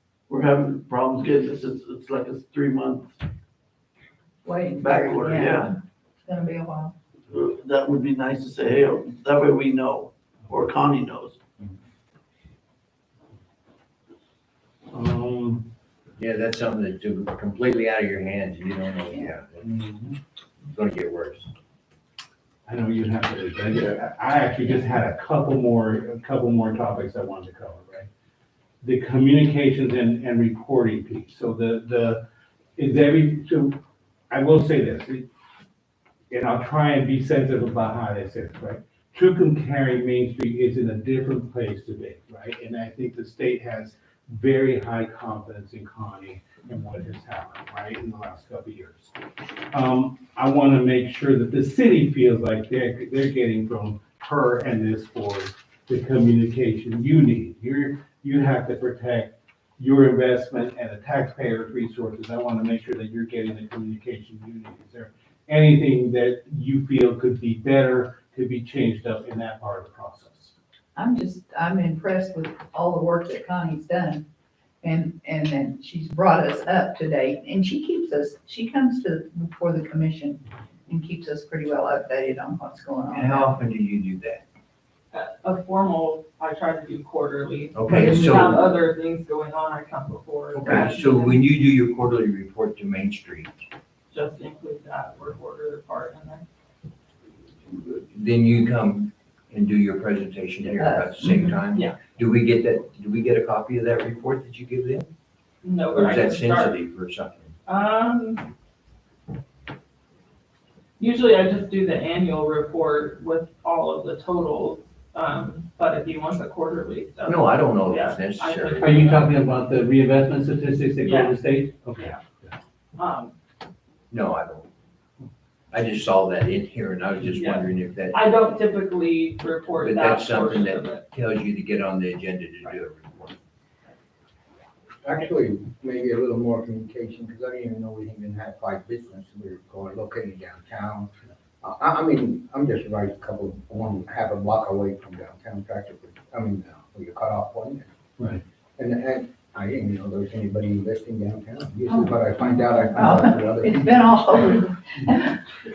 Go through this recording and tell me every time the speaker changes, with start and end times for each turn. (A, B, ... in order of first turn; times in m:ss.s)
0:00.3-0:03.2 A
0:04.4-0:07.0 B
0:04.8-0:05.7 A
0:07.3-0:11.4 A
0:14.9-0:15.7 C
0:16.2-0:19.7 D
0:20.7-0:21.5 D
0:22.7-0:28.1 C
0:28.8-0:32.2 C
0:32.8-0:33.8 C
0:34.3-0:35.2 C
0:36.3-0:49.1 C
0:49.7-1:10.5 C
1:11.0-1:14.2 B
1:14.8-1:23.5 B
1:23.1-1:24.4 D
1:25.1-1:31.4 E
1:27.7-1:28.7 D
1:28.0-1:28.6 B
1:30.5-1:33.7 D
1:34.1-1:36.5 E
1:37.7-1:45.1 D
1:40.7-1:41.6 B
1:45.6-1:46.8 E
1:45.9-1:47.5 D
1:47.7-1:48.5 E
1:51.0-1:59.4 E
1:57.2-1:58.9 D
1:58.8-2:02.2 C
2:01.0-2:01.4 E
2:03.0-2:03.4 E
2:04.1-2:04.7 D
2:05.7-2:08.3 D
2:07.4-2:11.0 E
2:09.8-2:13.4 D
2:15.0-2:21.1 F
2:21.6-2:27.9 F
2:28.8-2:34.2 F
2:31.9-2:35.4 B